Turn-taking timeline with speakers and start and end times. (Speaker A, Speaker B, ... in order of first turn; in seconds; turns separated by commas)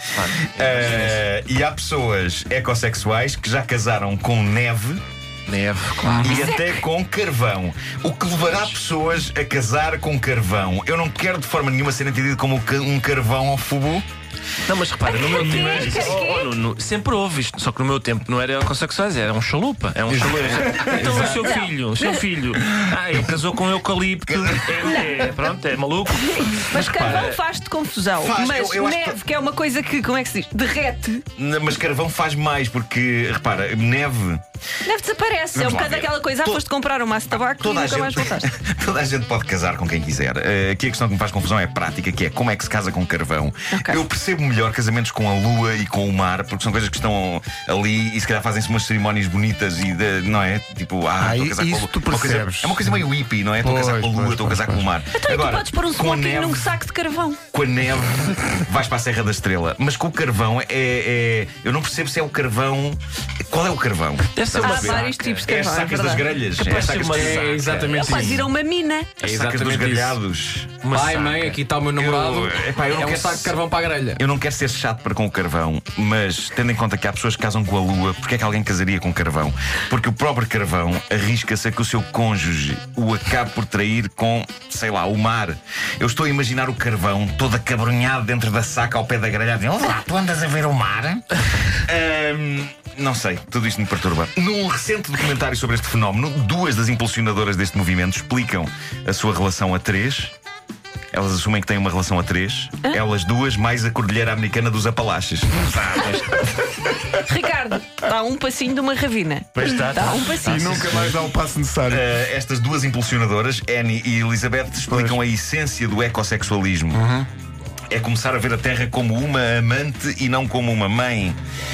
Speaker A: 0.1-1.2, Speaker B: 0.5-5.0, Speaker A: 5.5-6.5, Speaker C: 6.0-6.4, Speaker B: 6.2-14.0, Speaker D: 6.3-6.8, Speaker A: 14.7-27.4, Speaker D: 15.1-16.5, Speaker B: 15.6-15.9, Speaker C: 20.8-21.1, Speaker D: 20.9-22.0, Speaker E: 21.1-21.3, Speaker B: 24.3-25.0, Speaker D: 24.8-25.3, Speaker D: 26.1-31.2, Speaker B: 26.8-27.3, Speaker B: 28.2-29.2, Speaker B: 31.4-34.4, Speaker D: 34.9-38.5, Speaker B: 35.5-36.6, Speaker B: 37.5-56.7, Speaker D: 43.7-44.0, Speaker C: 51.2-53.0, Speaker C: 53.6-54.9, Speaker D: 55.1-57.4, Speaker B: 57.5-67.6, Speaker A: 64.3-65.5, Speaker D: 64.6-66.4, Speaker A: 66.6-68.4, Speaker E: 67.1-68.4, Speaker D: 67.9-69.2, Speaker B: 69.2-70.9, Speaker E: 69.2-70.2, Speaker A: 70.8-71.6, Speaker E: 70.9-74.2, Speaker B: 71.9-73.6, Speaker B: 74.2-91.2, Speaker B: 91.9-100.3, Speaker B: 101.1-105.7, Speaker A: 105.8-106.6, Speaker D: 107.2-110.7, Speaker A: 109.5-111.2, Speaker C: 110.4-112.1, Speaker B: 111.9-117.0, Speaker C: 114.9-115.2, Speaker C: 116.9-117.3, Speaker B: 117.9-121.4